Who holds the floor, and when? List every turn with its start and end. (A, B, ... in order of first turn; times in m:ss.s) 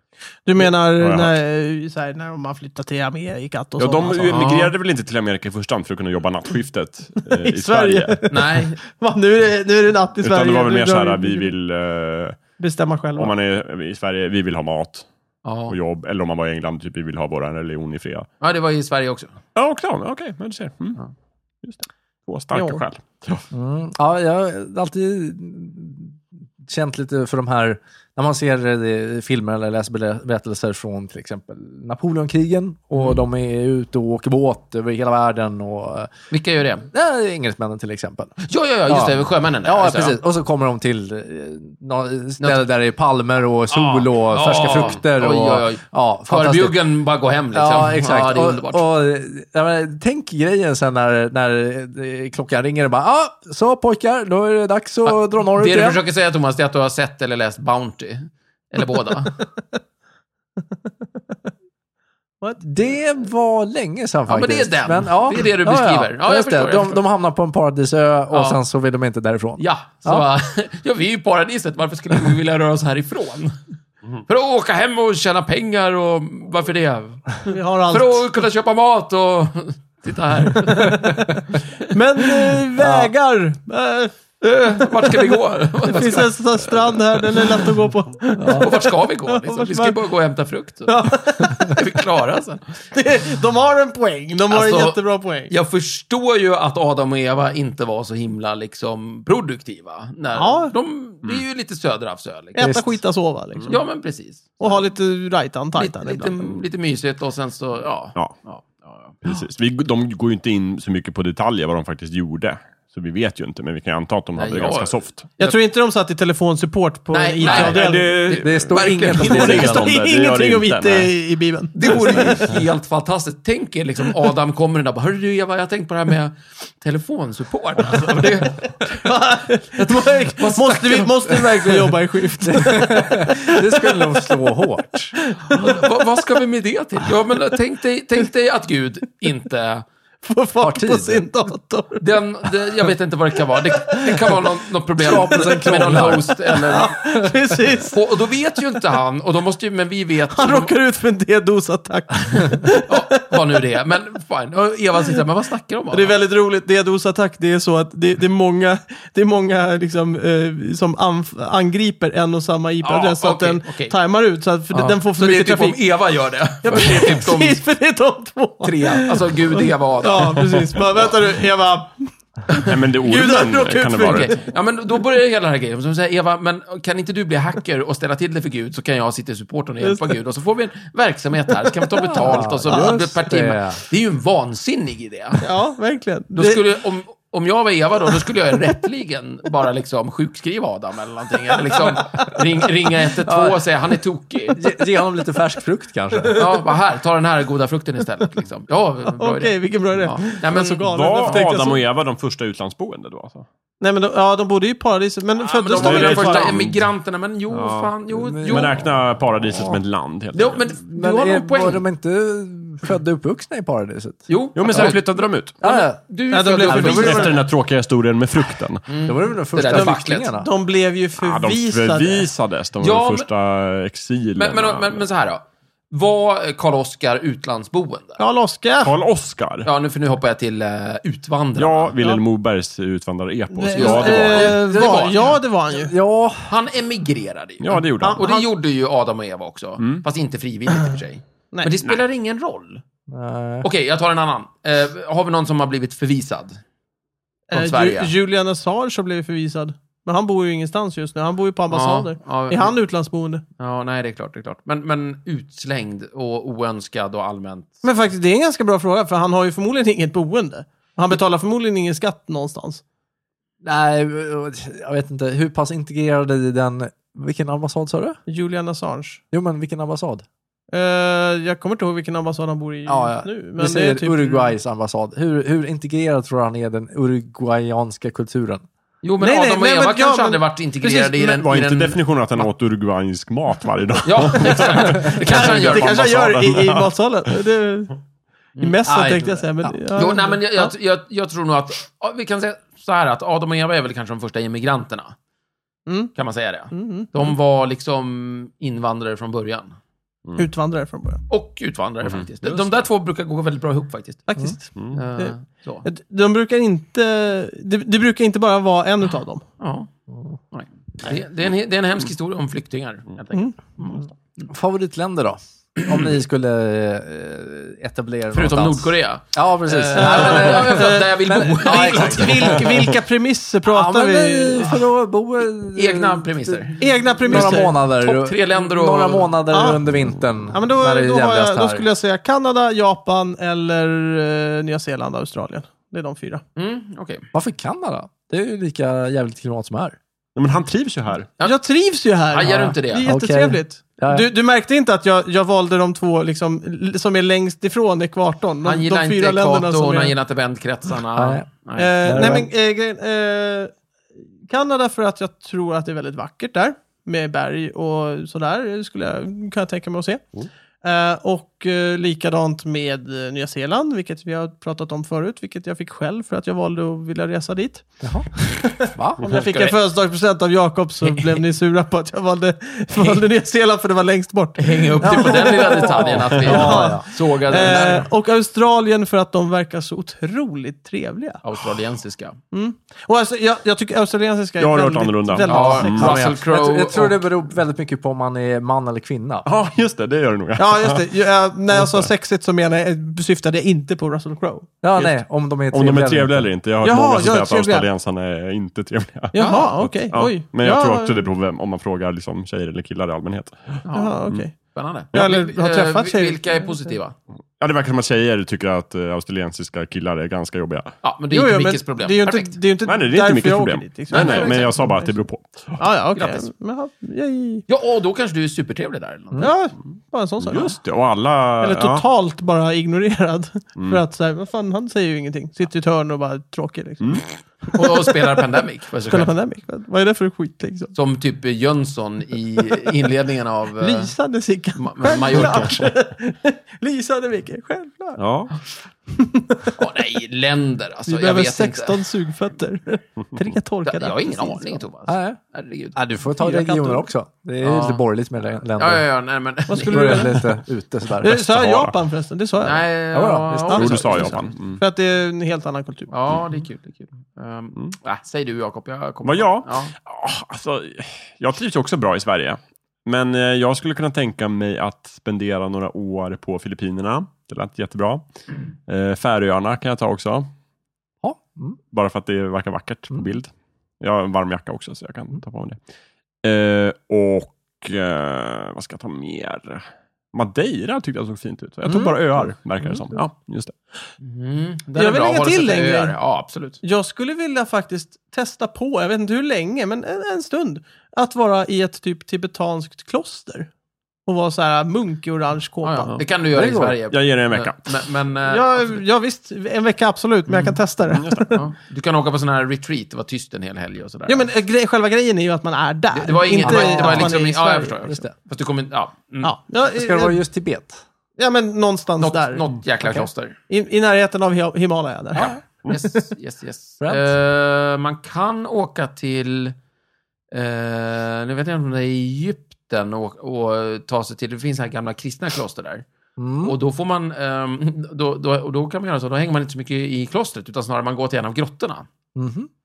0:00.4-0:04.4 A
0:00.6-0:01.4 B
0:03.8-0:08.3 B
0:04.2-0:04.7 C
0:07.4-0:11.5 A
0:08.3-0:08.8 C
0:10.2-0:12.4 B
0:12.6-0:13.3 A
0:13.2-0:15.0 B
0:15.4-0:15.7 C
0:15.7-0:18.3 B
0:18.4-0:19.4 C
0:19.5-0:21.0 B
0:21.6-0:23.4 B
0:22.5-0:22.8 A
0:23.5-0:36.1 D
0:36.3-0:36.9 C
0:36.9-0:46.8 D
0:38.4-0:40.2 C
0:43.7-0:48.8 C
0:47.5-0:56.0 D
0:55.0-0:59.4 C
1:02.6-1:10.2 D
1:04.3-1:07.0 C
1:08.3-1:08.6 C
1:09.6-1:13.6 C
1:14.2-1:21.9 C
1:17.5-1:18.2 A
1:20.7-1:21.3 A
1:21.9-1:24.2 A
1:22.8-1:23.1 D
1:24.4-1:27.0 C
1:25.0-1:30.0 A
1:28.4-1:28.7 D
1:28.5-1:32.6 C
1:30.9-1:31.8 A
1:32.9-1:35.5 A
1:34.5-1:42.9 C
1:40.4-1:40.7 A
1:42.5-1:43.8 A
1:43.6-1:44.9 C
1:44.6-1:46.6 A
1:45.8-1:49.2 C
1:49.2-1:55.3 B
1:54.4-1:55.5 C
1:55.4-1:58.2 A
1:57.1-1:59.7 C
1:57.4-2:01.1 B
1:58.4-1:59.9 D
1:59.2-2:02.6 A
2:01.7-2:09.1 C
2:08.9-2:14.6 A
2:09.8-2:11.7 C
2:12.4-2:15.1 D
2:15.3-2:15.9 A
2:15.5-2:19.9 C
2:20.2-2:22.1 A
2:20.6-2:21.3 D
2:22.0-2:27.0 C
2:23.9-2:24.3 A
2:25.0-2:27.4 D
2:25.1-2:28.0 A
2:27.8-2:30.7 C
2:30.3-2:33.0 A
2:32.8-2:36.2 C
2:35.9-2:45.8 A
2:42.8-2:43.9 C
2:44.7-2:47.6 C
2:46.6-2:54.4 A
2:48.6-2:51.1 C
2:52.6-2:54.4 B
2:54.0-3:05.4 C
2:59.8-3:00.1 A
3:02.0-3:03.8 D
3:05.4-3:06.6 A
3:06.3-3:14.7 C
3:13.2-3:13.6 D
3:14.6-3:16.5 D
3:16.3-3:20.9 C
3:19.2-3:21.8 A
3:20.8-3:23.5 B
3:23.8-3:26.6 A
3:25.4-3:28.8 C
3:25.7-3:26.9 B
3:27.5-3:30.7 B
3:28.2-3:28.8 D
3:29.5-3:29.8 D
3:30.3-3:31.8 C
3:30.9-3:34.2 D
3:34.3-3:37.4 C
3:34.5-3:35.5 B
3:35.6-3:36.0 D
3:36.3-3:37.4 A
3:36.7-3:37.3 D
3:36.7-3:38.9 B
3:38.9-3:40.3 C
3:39.0-3:40.5 D
3:39.6-3:42.3 A
3:41.2-3:45.0 B
3:42.8-3:43.3 C
3:44.3-3:48.2 C
3:48.2-3:48.9 A
3:48.8-3:49.7 B
3:49.6-3:51.9 C
3:51.6-3:54.6 B
3:53.5-3:55.9 A
3:53.7-3:55.4 C
3:54.5-3:56.5 D
3:56.5-4:02.8 C
3:57.6-3:58.2 B
3:58.0-3:58.5 A
4:03.1-4:03.7 D
4:03.6-4:06.6 C
4:07.5-4:13.4 A
4:07.5-4:08.1 C
4:11.7-4:12.7 C
4:13.6-4:17.8 C
4:17.8-4:22.8 A
4:23.6-4:28.2 D
4:28.3-4:29.2 A
4:29.3-4:30.2 D
4:30.7-4:34.5 A
4:32.8-4:38.6 D
4:39.0-4:42.0 C
4:39.2-4:40.4 A
4:40.8-4:46.9 B
4:44.0-4:46.0 C
4:44.9-4:48.0 A
4:48.6-4:50.7 A
4:48.8-4:49.8 D
4:49.9-4:55.1 C
4:55.9-4:56.1 A
4:56.1-4:59.8 C
4:56.7-4:57.2 A
5:00.4-5:01.2 A
5:01.3-5:04.3 C
5:02.0-5:02.8 B
5:04.3-5:09.4 A
5:04.9-5:05.8 C
5:09.6-5:09.9 C
5:10.5-5:14.1 C
5:14.4-5:22.6 D
5:18.3-5:22.7 C
5:19.9-5:24.8 A
5:23.6-5:31.8 D
5:25.7-5:29.4 C
5:26.8-5:27.8 A
5:29.5-5:29.8 A
5:30.5-5:36.4 A
5:36.6-5:37.3 C
5:37.3-5:40.0 D
5:40.4-5:41.3 B
5:41.4-5:50.1 A
5:42.3-5:43.1 C
5:42.5-5:44.3 D
5:48.6-5:52.4 C
5:51.2-5:51.5 D
5:51.8-5:53.7 A
5:52.0-5:52.5 D
5:54.4-6:00.2 A
6:00.8-6:21.4 A
6:08.0-6:09.2 D
6:09.2-6:09.8 C
6:11.0-6:11.4 C
6:13.0-6:13.2 C
6:14.6-6:18.1 C
6:15.0-6:18.0 D
6:21.4-6:22.4 C
6:22.5-6:26.2 A
6:24.6-6:26.2 B
6:25.5-6:27.3 C
6:25.7-6:29.4 D
6:29.4-6:31.1 B
6:30.6-6:34.8 A
6:31.7-6:32.1 B
6:34.8-6:36.5 D
6:35.7-6:44.4 B
6:36.8-6:37.8 A
6:39.3-6:41.2 A
6:39.3-6:39.7 C
6:43.8-6:47.1 C
6:43.9-6:46.9 A
6:47.6-6:51.0 B
6:51.0-6:52.6 C
6:51.3-6:55.1 A
6:52.8-6:55.8 B
6:54.1-6:54.8 C
6:55.8-6:57.6 A
6:56.1-6:56.5 C
6:57.7-6:59.5 C
6:59.4-7:00.8 A
7:00.4-7:02.0 B
7:01.6-7:08.0 A
7:03.8-7:04.0 B
7:07.7-7:09.3 C
7:09.1-7:10.9 A
7:10.9-7:14.1 C
7:13.8-7:18.2 A
7:14.7-7:15.9 C
7:15.4-7:15.7 B
7:18.2-7:18.5 B
7:19.1-7:19.7 A
7:19.8-7:22.0 C
7:21.0-7:24.8 A
7:23.8-7:26.0 C
7:25.1-7:25.4 D
7:25.9-7:29.0 D
7:26.4-7:27.0 A
7:27.6-7:28.0 C
7:28.7-7:30.4 C
7:29.7-7:30.5 A
7:29.8-7:31.6 D
7:31.2-7:32.9 A
7:31.4-7:31.9 B
7:32.6-7:34.4 C
7:33.1-7:34.0 D
7:33.7-7:36.1 A
7:33.7-7:34.8 B
7:36.1-7:39.9 C
7:39.2-7:48.3 B
7:48.8-7:50.5 B
7:51.2-7:51.8 D
7:51.9-7:55.8 B
7:56.4-8:03.7 B
8:04.2-8:06.8 C
8:05.0-8:06.2 A
8:06.8-8:13.7 A
8:14.2-8:16.2 A
8:15.8-8:19.0 C
8:16.5-8:17.0 D
8:17.1-8:18.0 B
8:18.5-8:21.6 A
8:20.5-8:20.8 C
8:21.1-8:21.6 B
8:21.5-8:24.4 C
8:24.3-8:27.9 A
8:26.1-8:29.5 C
8:26.6-8:27.3 D
8:28.0-8:28.3 D
8:29.4-8:30.4 A
8:29.9-8:31.0 D
8:31.4-8:32.6 A
8:32.2-8:33.6 C
8:33.7-8:35.6 A
8:35.3-8:39.8 C
8:37.0-8:37.3 D
8:40.5-8:46.0 C
8:46.4-8:46.7 D
8:46.6-8:52.0 C
8:52.3-8:52.7 D